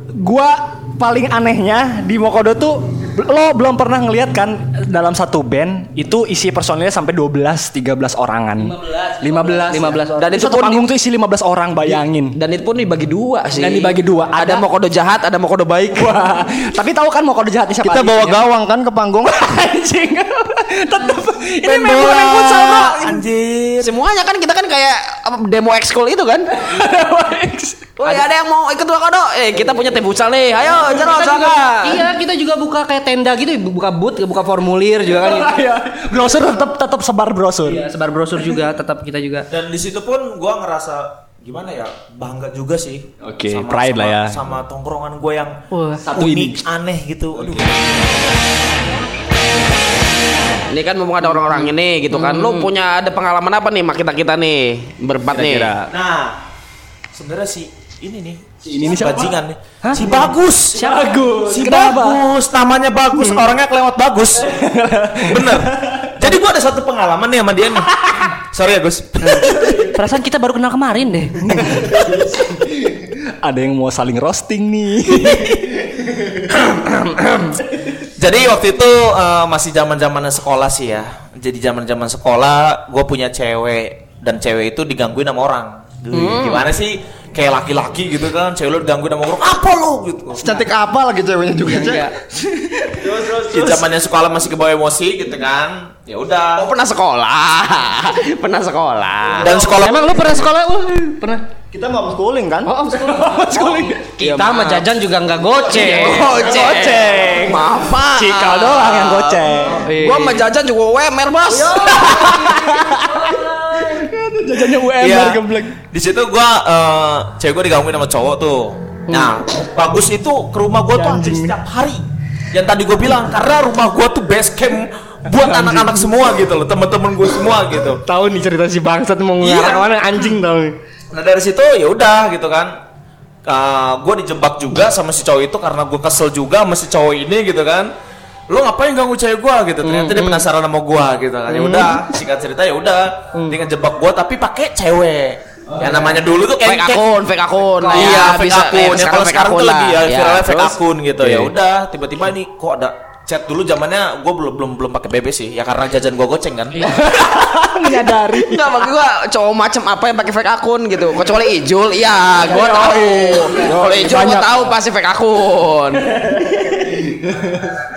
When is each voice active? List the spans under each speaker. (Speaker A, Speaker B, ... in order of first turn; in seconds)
Speaker A: 0.2-12.4, 13.5-14.6, 15.9-18.4, 19.3-23.2, 26.6-28.2, 35.1-37.9, 43.2-44.4, 46.0-46.6, 47.4-47.7, 55.3-55.9, 58.6-59.4, 60.7-62.2, 64.4-66.1, 71.5-76.4, 103.0-104.2, 105.9-109.8, 111.8-115.8, 156.8-158.8, 162.4-164.7, 166.1-167.7
Speaker B: 8.6-10.3, 30.9-35.6, 37.6-39.5, 45.7-46.1, 52.1-52.7, 59.8-61.1, 69.2-71.9, 76.8-77.5, 86.1-86.6, 91.7-92.2, 99.8-101.4, 102.7-106.5, 109.7-110.4, 111.5-114.1, 119.1-119.4, 121.0-121.3, 128.0-130.7, 139.8-140.4, 141.5-142.0, 147.8-148.3
Speaker C: 10.2-10.8, 11.8-16.2, 23.8-26.5, 28.0-32.0, 50.7-55.7, 96.6-99.6, 104.2-104.8, 105.6-109.3, 109.8-112.4, 146.6-150.8, 158.3-166.1
Speaker D: 17.8-19.5, 90.4-92.1, 93.0-93.8, 99.4-99.9, 101.7-102.7
Speaker E: 21.6-23.9, 39.5-45.6, 46.1-48.1, 55.9-56.4, 57.1-64.6, 65.2-69.9, 78.2-90.4, 93.2-96.7, 99.4-100.3, 115.0-128.0, 129.4-129.9, 131.1-132.7, 133.4-137.9, 138.5-147.1, 147.8-156.9